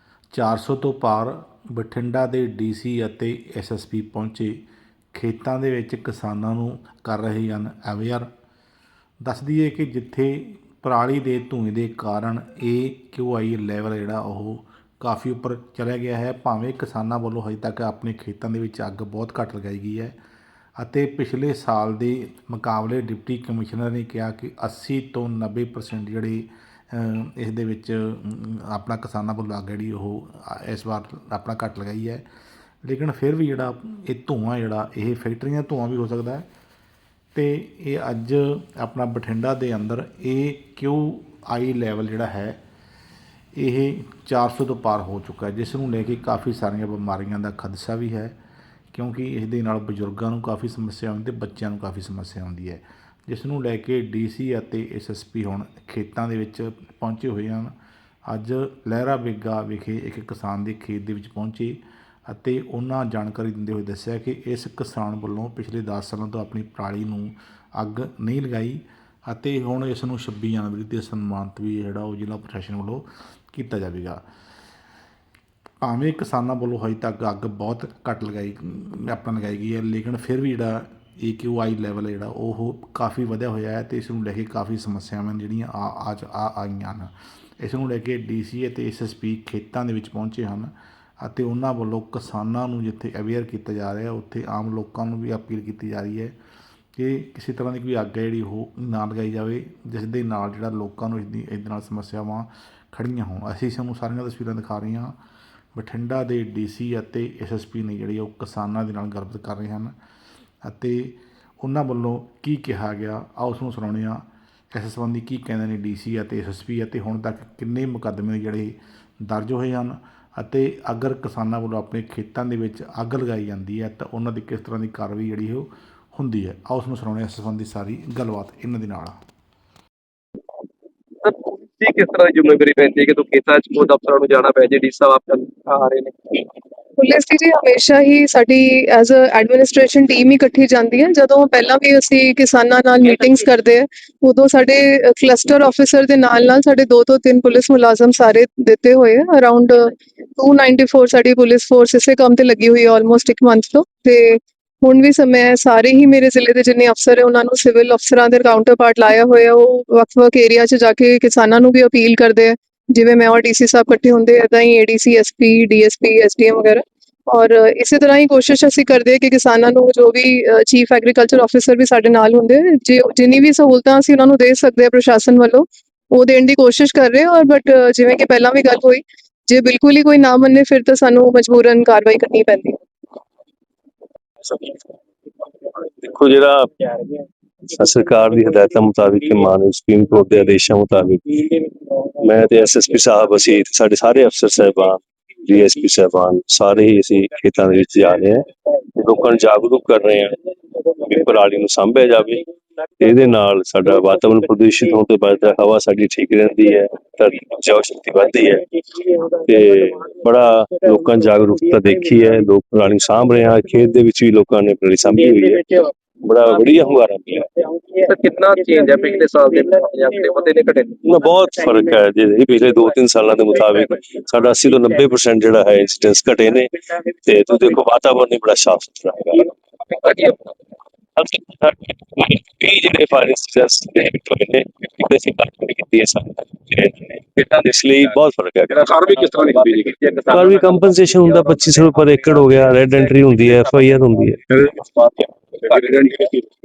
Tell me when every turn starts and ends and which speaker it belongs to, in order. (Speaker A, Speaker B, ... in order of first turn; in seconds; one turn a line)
Speaker A: 0.3-4.6
Speaker A: 5.1-8.3
Speaker A: 9.2-20.1
Speaker A: 20.8-32.2
Speaker A: 32.8-36.5
Speaker A: 37.3-42.6
Speaker A: 43.5-48.3
Speaker A: 48.9-57.7
Speaker A: 58.3-74.2
Speaker A: 75.8-96.3
Speaker A: 97.0-105.1
Speaker A: 105.7-109.9
Speaker A: 110.6-129.2
Speaker B: 131.2-136.4
Speaker C: 137.0-182.8
Speaker D: 186.0-186.9
Speaker D: 187.7-191.6
Speaker D: 192.2-200.4
Speaker D: 200.9-202.4
Speaker D: 203.0-217.5
Speaker B: 218.0-221.0
Speaker D: 221.0-229.5
Speaker B: 229.9-230.5
Speaker D: 231.2-239.4
Speaker B: 238.7-242.3
Speaker D: 240.2-244.4
Speaker B: 244.5-246.5